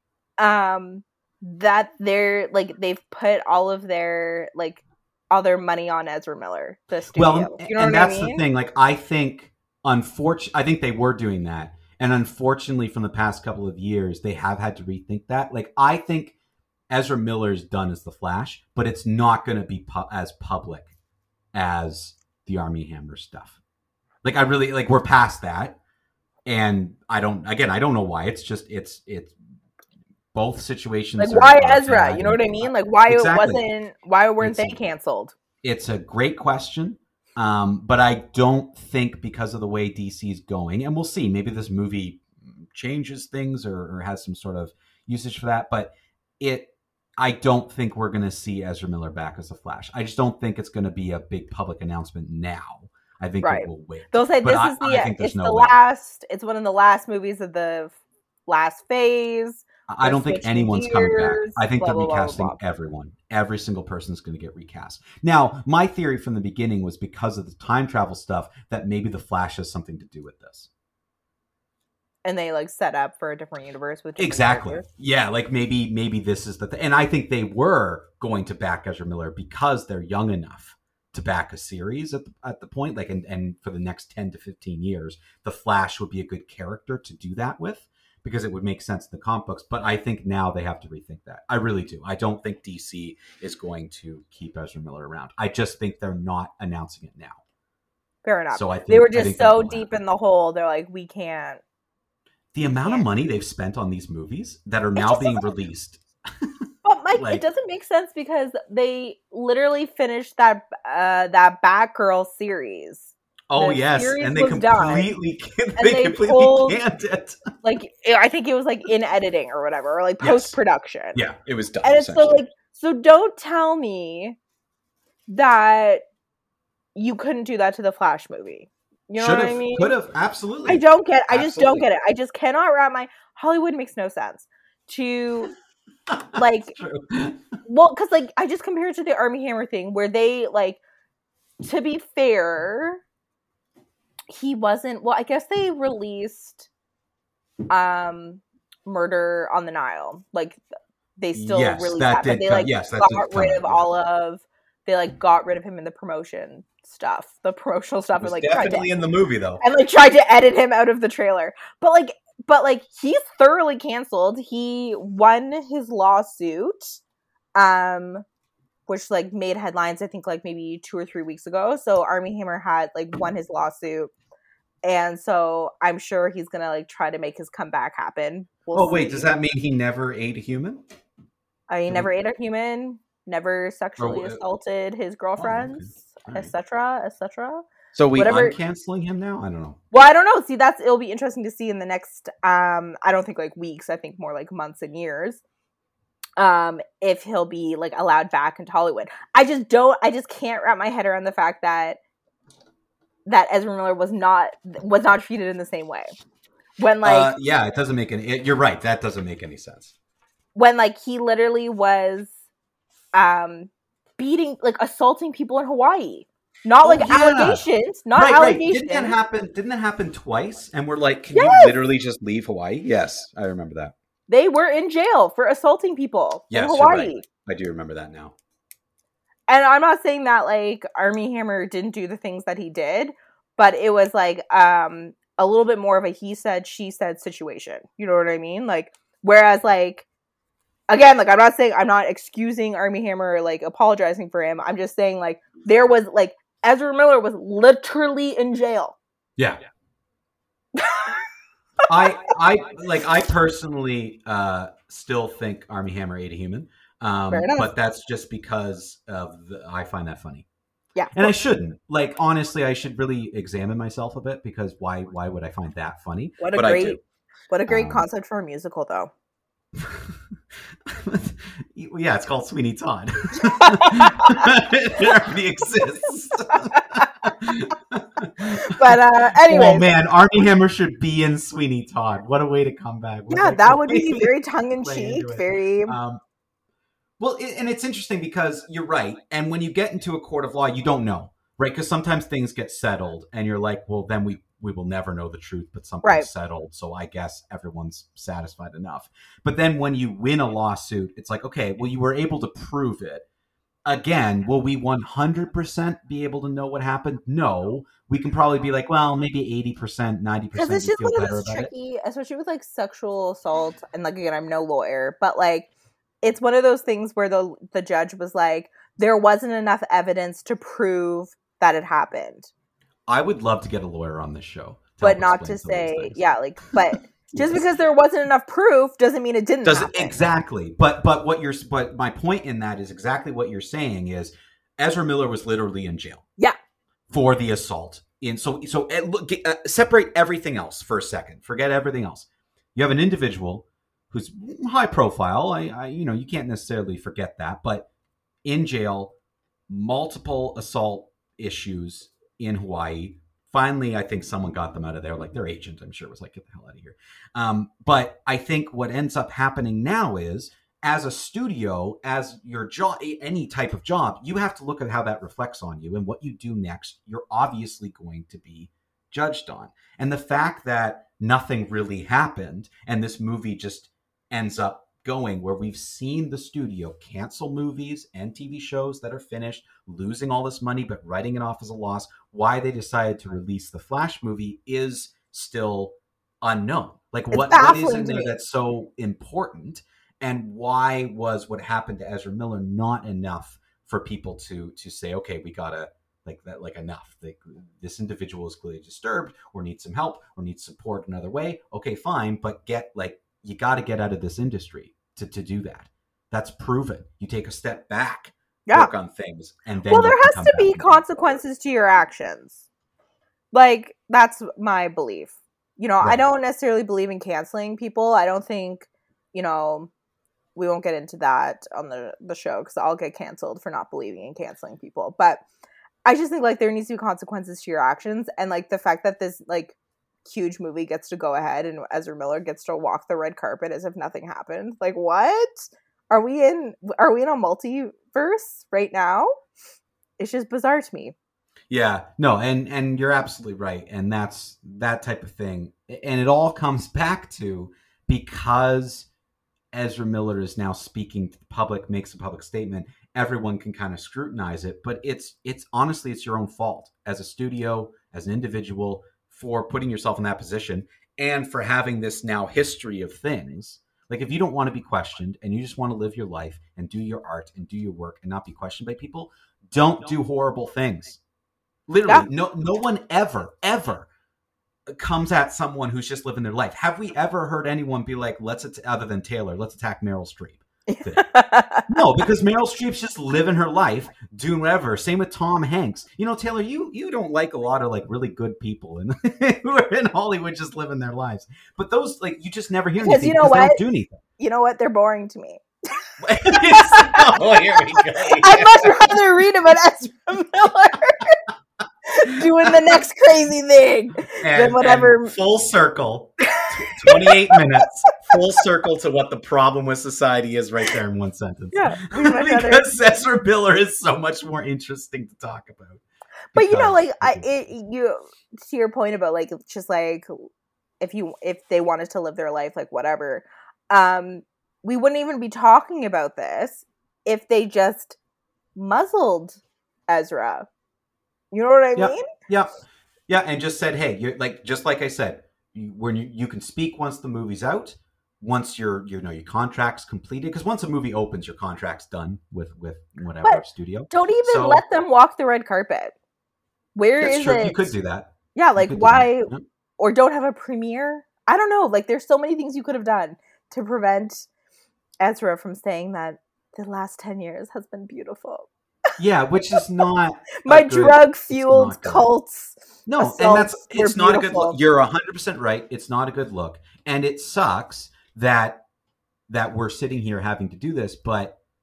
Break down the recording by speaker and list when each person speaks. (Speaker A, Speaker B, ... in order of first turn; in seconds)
Speaker A: 0.4-8.4, 31.2-35.3, 53.4-58.0, 58.5-62.5, 72.2-74.8, 98.2-101.6, 102.6-103.0, 105.0-105.5, 106.8-115.1, 115.8-116.8, 117.6-121.2, 121.8-124.4, 125.3-126.0, 126.9-129.9, 130.7-135.5, 136.3-136.7, 137.7-140.8, 141.6-143.0, 144.3-146.7, 147.7-150.6, 151.2-158.9, 159.6-167.0, 167.5-168.2, 168.9-174.1, 174.8-179.3, 181.7-188.6, 189.9-195.4, 196.4-202.0, 203.2-206.1, 206.8-207.3, 210.5-212.3, 213.1-219.1, 221.3-221.7, 224.3-227.2, 229.5-240.1, 240.9-249.0, 250.7-251.2, 257.3-257.7, 260.9-261.3, 266.4-267.0, 267.5-269.1, 273.4-274.4, 276.5-276.8, 278.6-279.9, 283.3-285.9, 296.0-296.3, 310.5-315.7, 316.2-322.5, 325.0-330.2, 387.3-388.3, 409.9-412.6, 413.5-419.9, 420.5-425.4, 426.0-439.3, 440.2-441.1, 480.9-482.0, 493.0-493.8, 494.4-501.4, 502.0-505.4, 507.0-507.6, 511.7-512.9, 516.5-520.3, 521.0-528.2, 528.7-530.7, 531.5-532.2, 543.4-546.1, 546.9-547.9, 548.5-554.5, 555.2-558.7, 560.6-564.8
Speaker B: 7.1-16.3, 16.9-20.9, 21.5-23.6, 24.2-25.8, 26.4-29.3, 30.3-33.6, 34.4-34.8, 35.6-55.7, 59.9-70.7, 74.2-97.4, 98.5-99.9, 102.5-106.5, 107.1-107.4, 113.5-117.4, 120.2-120.6, 121.1-122.4, 129.2-131.8, 136.1-137.4, 151.3-153.8, 158.2-159.6, 178.7-180.8, 184.0-184.4, 185.4-186.5, 187.9-189.8, 207.0-209.9, 216.8-223.9, 226.5-228.3, 251.8-260.4, 261.1-267.0, 267.7-268.0, 269.8-270.1, 270.9-286.2, 287.2-303.2, 303.9-311.7, 323.1-326.2, 326.9-327.6, 329.6-336.2, 337.1-347.9, 348.4-349.1, 349.7-411.1, 441.7-449.1, 449.7-471.2, 471.9-474.1, 474.9-481.3, 481.9-494.2, 496.2-499.0, 504.4-516.0, 516.5-517.5, 531.9-532.8, 533.3-544.8, 547.2-549.6, 559.2-562.3, 563.0-568.8, 569.5-571.5